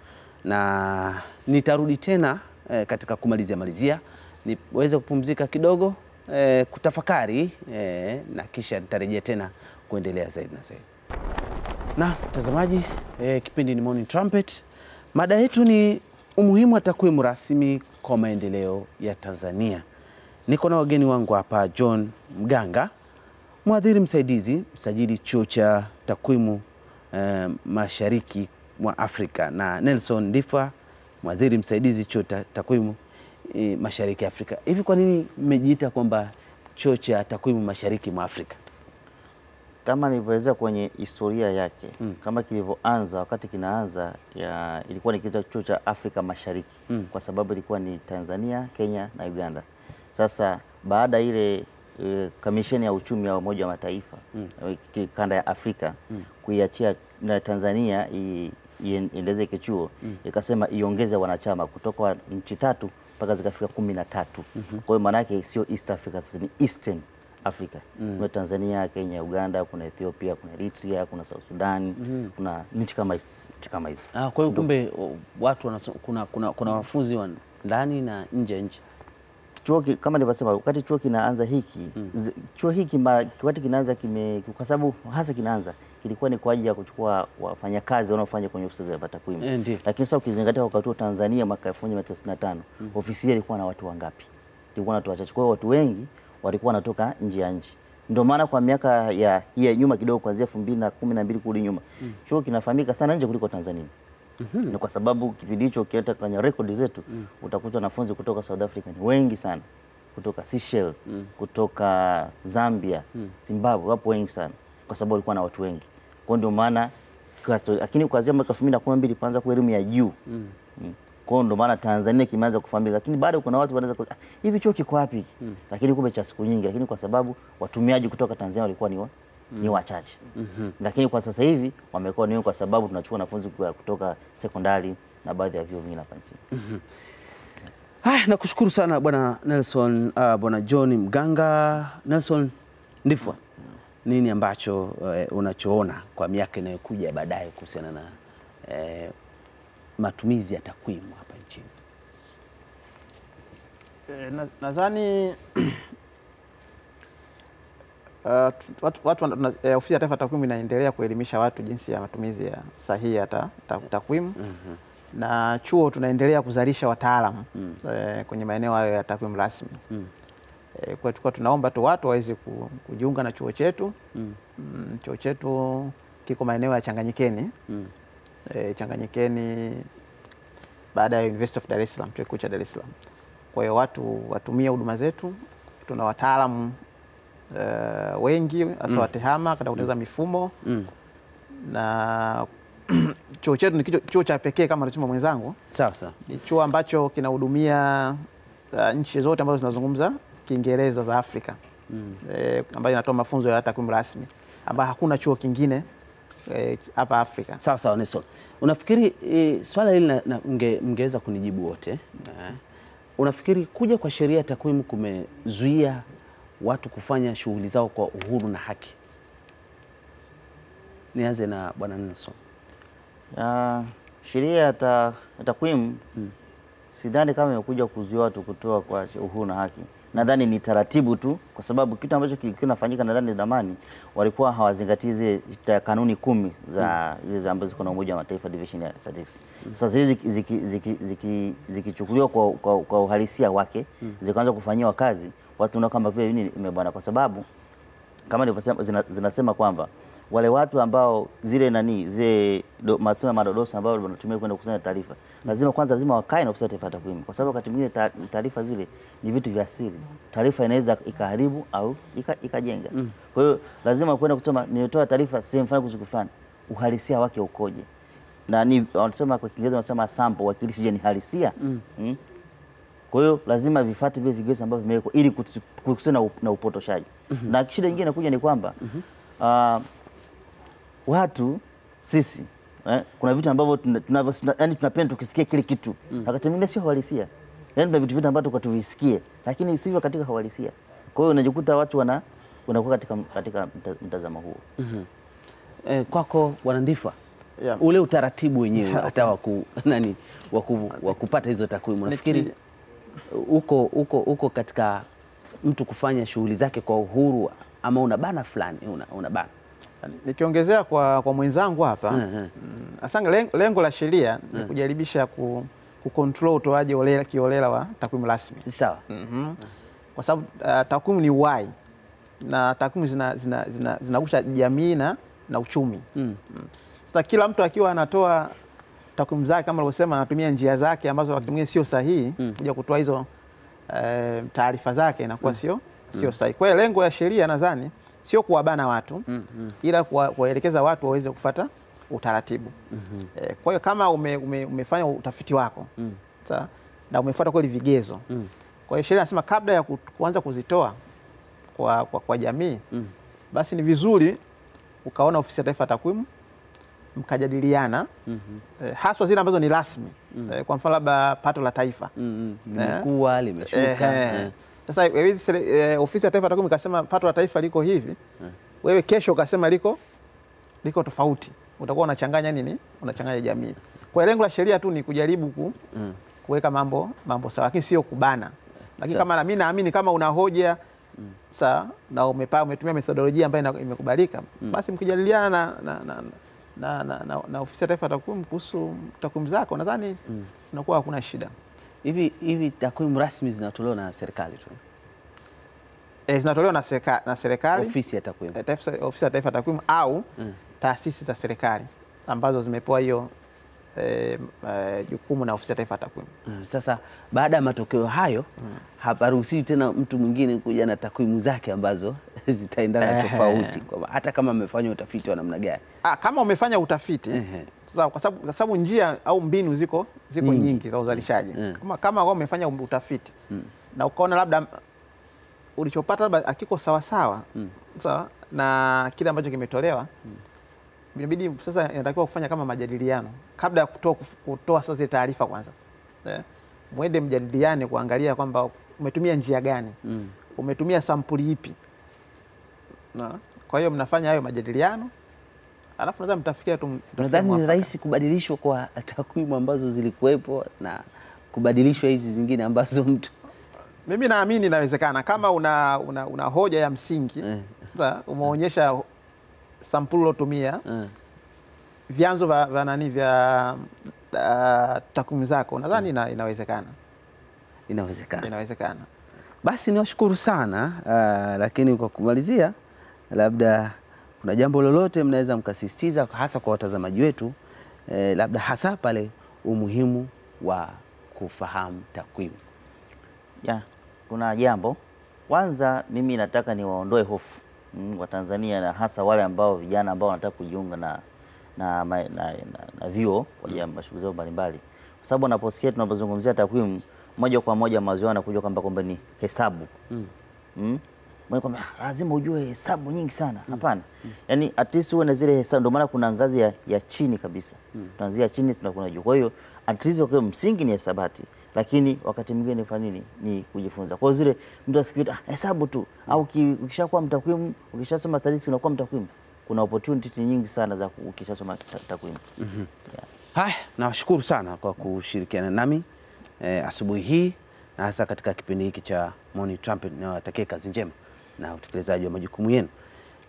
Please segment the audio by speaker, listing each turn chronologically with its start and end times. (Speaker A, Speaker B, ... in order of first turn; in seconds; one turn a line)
Speaker A: 0.4-10.8
Speaker A: 11.9-19.8
Speaker A: 20.5-22.9
Speaker A: 23.6-38.6
Speaker B: 39.8-74.7
Speaker A: 68.0-68.2
Speaker A: 72.0-72.3
Speaker A: 74.1-78.8
Speaker B: 79.6-103.9
Speaker A: 89.4-89.8
Speaker A: 104.4-104.8
Speaker B: 104.7-120.2
Speaker A: 120.3-120.5
Speaker B: 120.8-130.2
Speaker A: 130.3-130.7
Speaker B: 130.8-136.4
Speaker A: 136.5-136.8
Speaker A: 138.0-143.4
Speaker A: 144.0-148.1
Speaker A: 148.7-149.1
Speaker A: 150.0-151.7
Speaker C: 154.1-155.9
Speaker C: 158.2-164.4
Speaker A: 164.4-164.8
Speaker C: 165.1-169.8
Speaker C: 170.7-173.9
Speaker C: 174.6-177.5
Speaker C: 178.5-179.9
Speaker C: 180.9-182.9
Speaker C: 183.5-186.8
Speaker C: 187.5-190.6
Speaker A: 190.6-190.9
Speaker C: 191.5-195.6
Speaker A: 195.7-196.2
Speaker C: 196.2-201.6
Speaker A: 201.9-202.2
Speaker C: 202.2-205.8
Speaker C: 206.5-207.6
Speaker A: 207.6-212.6
Speaker A: 213.2-216.0
Speaker A: 216.6-219.0
Speaker A: 221.1-222.4
Speaker B: 223.3-226.0
Speaker B: 226.9-247.4
Speaker B: 248.3-267.9
Speaker B: 268.5-272.2
Speaker B: 273.1-278.8
Speaker B: 279.4-279.9
Speaker B: 281.1-294.6
Speaker A: 294.8-295.1
Speaker A: 295.8-297.2
Speaker A: 297.8-302.5
Speaker C: 302.1-302.5
Speaker A: 303.3-305.1
Speaker A: 305.6-309.5
Speaker C: 310.0-319.6
Speaker A: 312.1-312.5
Speaker A: 318.6-319.0
Speaker C: 320.1-321.7
Speaker C: 322.4-328.6
Speaker A: 326.1-326.4
Speaker C: 329.1-333.3
Speaker C: 333.9-339.3
Speaker A: 339.3-339.7
Speaker C: 339.8-342.7
Speaker A: 342.9-343.3
Speaker C: 343.3-345.9
Speaker C: 346.4-348.3
Speaker C: 348.9-351.0
Speaker C: 351.7-352.8
Speaker C: 353.5-354.4
Speaker C: 355.0-356.3
Speaker C: 357.1-358.1
Speaker A: 358.3-358.6
Speaker C: 358.8-362.1
Speaker A: 362.1-364.5
Speaker C: 362.8-363.1
Speaker C: 363.7-368.2
Speaker C: 368.8-370.0
Speaker C: 370.8-375.8
Speaker C: 376.4-380.8
Speaker C: 381.5-390.2
Speaker C: 390.7-391.5
Speaker A: 392.0-394.8
Speaker C: 396.3-397.9
Speaker A: 397.7-398.6
Speaker C: 398.5-400.3
Speaker C: 400.8-403.3
Speaker C: 403.9-406.3
Speaker A: 406.4-408.5
Speaker A: 409.0-415.8
Speaker C: 413.0-413.8
Speaker C: 416.0-423.3
Speaker A: 417.3-417.7
Speaker A: 420.4-421.8
Speaker C: 423.9-424.7
Speaker C: 425.8-430.1
Speaker C: 431.1-440.0
Speaker A: 440.1-440.3
Speaker C: 440.5-441.8
Speaker C: 443.1-445.1
Speaker C: 446.0-447.9
Speaker A: 447.2-453.3
Speaker C: 454.1-459.1
Speaker A: 457.4-457.8
Speaker C: 459.8-460.8
Speaker A: 460.9-461.1
Speaker C: 462.1-466.9
Speaker A: 467.9-468.5
Speaker C: 468.4-469.1
Speaker A: 469.6-472.7
Speaker A: 473.3-477.5
Speaker A: 478.1-482.6
Speaker B: 483.6-491.2
Speaker B: 491.8-499.9
Speaker B: 500.8-522.4
Speaker A: 522.6-522.9
Speaker A: 523.5-526.0
Speaker A: 526.6-532.9